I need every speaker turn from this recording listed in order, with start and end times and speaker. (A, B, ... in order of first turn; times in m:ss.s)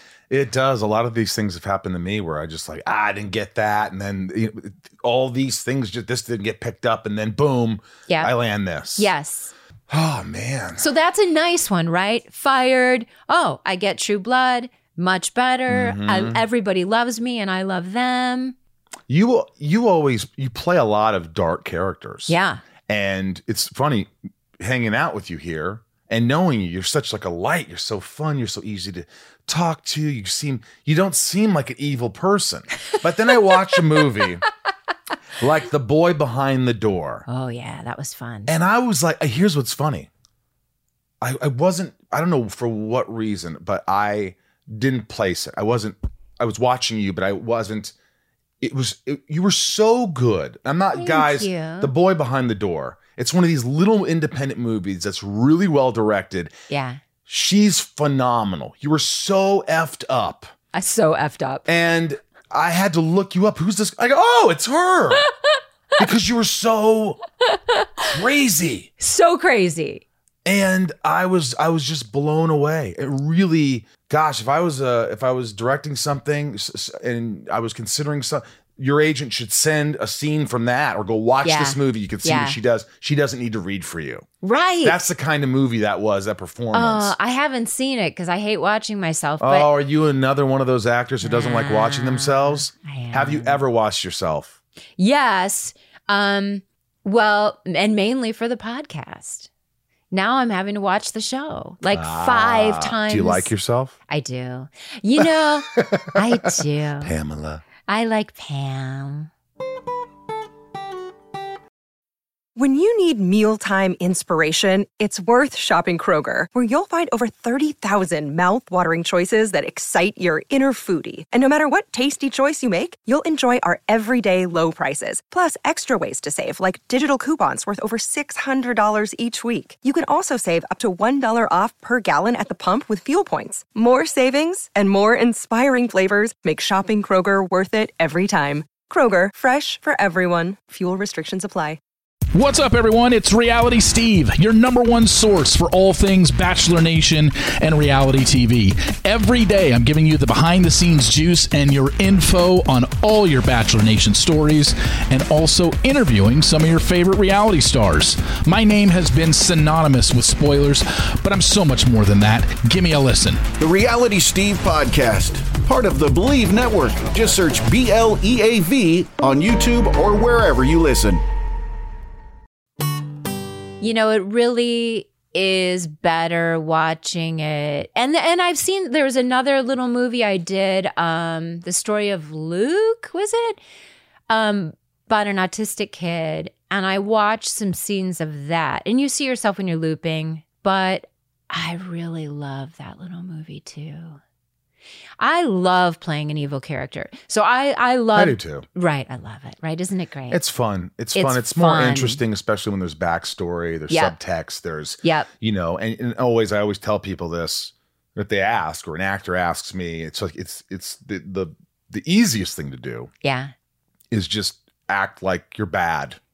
0:00.3-0:09.1 A
0:09.0-0:09.5 B
0:09.9-0:10.9 A
0:10.8-0:18.6 B
0:15.7-0:16.4 A
0:19.1-0:22.4 A
0:22.3-0:22.6 B
0:22.9-0:34.4 A
0:35.4-0:37.3 A
0:37.3-0:38.5 B
0:38.5-0:40.1 A
0:41.2-0:47.9 A
0:48.6-0:56.5 A
0:51.0-0:51.9 B
0:56.7-0:57.0 B
0:57.3-1:00.5 A
1:00.7-1:01.7 B
1:01.7-1:05.3 A
1:06.0-1:07.2 A
1:07.5-1:07.9 B
1:08.1-1:08.9 A
1:09.0-1:10.0 B
1:10.4-1:24.3 A
1:21.4-1:22.6 B
1:24.4-1:25.0 B
1:24.8-1:27.1 A
1:26.7-1:29.7 B
1:29.4-1:34.6 A
1:31.2-1:33.6 B
1:35.0-1:39.5 B
1:40.1-1:43.5 B
1:41.9-1:44.0 A
1:44.1-1:47.1 B
1:45.2-1:46.2 A
1:47.0-1:47.6 A
1:47.8-1:49.3 B
1:52.6-2:21.8 C
2:22.3-2:43.4 D
2:43.6-2:51.2 E
2:53.8-3:03.6 B
3:04.3-3:14.2 B
3:15.2-3:20.4 B
3:18.1-3:18.7 A
3:20.3-3:33.1 A
3:21.1-3:22.2 B
3:23.9-3:24.2 B
3:25.0-3:25.3 B
3:33.2-3:33.5 B
3:34.1-3:36.2 A